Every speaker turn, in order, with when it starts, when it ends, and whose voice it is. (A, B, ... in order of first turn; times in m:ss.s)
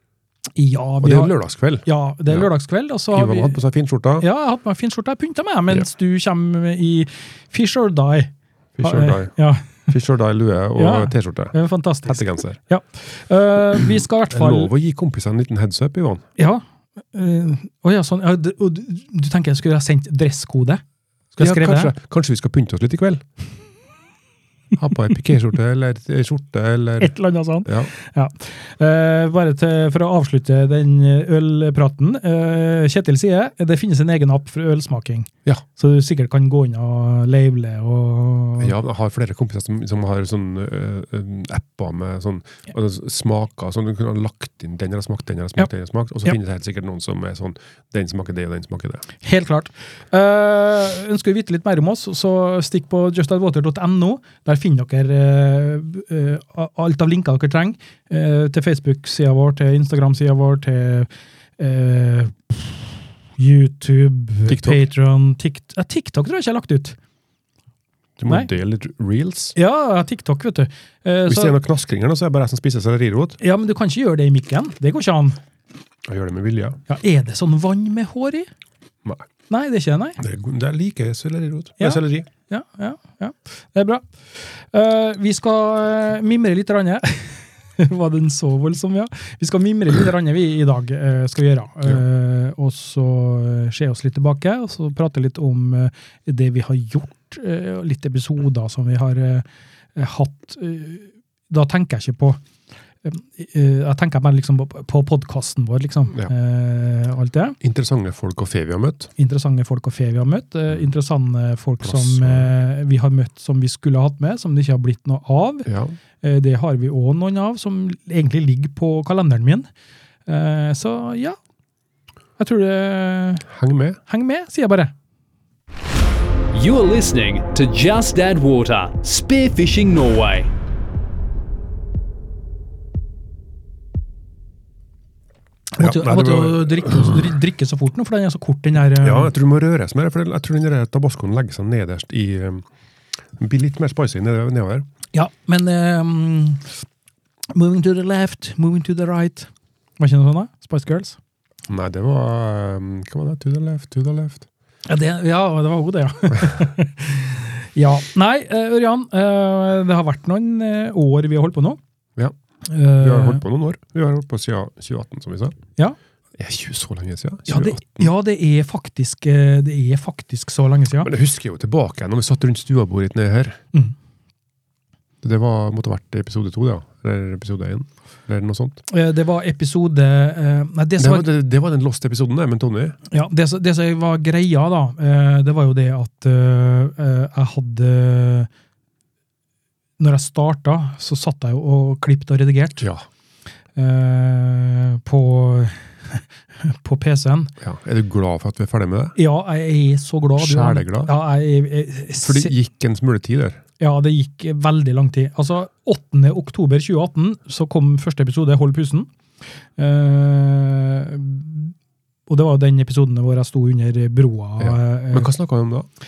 0:00.6-0:03.6 A
0:01.0-0:02.5 B
0:03.1-0:04.3 B
0:04.2-0:09.9 A
0:08.8-0:09.3 B
0:09.9-0:11.6 B
0:10.8-0:14.7 A
0:12.1-0:12.6 B
0:13.8-0:16.3 B
0:16.4-0:20.8 A
0:21.4-0:22.0 A
0:21.4-0:23.2 B
0:24.8-0:27.1 B
0:27.0-0:38.7 A
0:27.6-0:27.9 B
0:38.6-0:49.0 B
0:49.2-1:07.0 A
1:04.5-1:04.8 B
1:08.2-1:09.6 B
1:09.6-1:11.6 A
1:11.3-1:13.4 B
1:13.4-1:15.4 A
1:16.1-1:16.8 B
1:16.9-1:18.5 A
1:19.5-1:20.2 A
1:20.2-1:22.3 B
1:21.8-1:42.4 A
1:43.0-1:47.6 A
1:47.6-1:49.1 B
1:49.2-1:55.7 A
1:51.8-1:52.5 B
1:55.7-1:55.9 B
1:56.2-1:59.7 A
2:00.3-2:01.4 A
2:02.4-2:03.5 A
2:03.5-2:04.0 B
2:04.1-2:04.9 A
2:06.5-2:10.5 C
2:15.7-2:19.3 A
2:15.8-2:17.3 B
2:19.0-2:22.7 B
2:23.3-2:24.9 B
2:25.1-2:26.8 A
2:27.5-2:31.2 A
2:31.7-2:34.5 B
2:34.9-2:41.8 A
2:42.6-2:43.4 A
2:43.0-2:45.6 B
2:46.4-2:48.1 B
2:47.5-2:51.1 A
2:51.0-2:53.6 B
2:55.2-2:58.8 B
2:58.9-3:01.3 A
3:01.0-3:03.0 B
3:03.1-3:08.5 A
3:10.0-3:12.9 A
3:13.8-3:17.5 A
3:17.6-3:19.2 B
3:19.2-3:22.5 A
3:20.4-3:21.1 B
3:22.2-3:23.6 B
3:23.8-3:29.1 A
3:29.8-3:31.7 A
3:32.3-3:35.3 A
3:34.6-3:35.9 B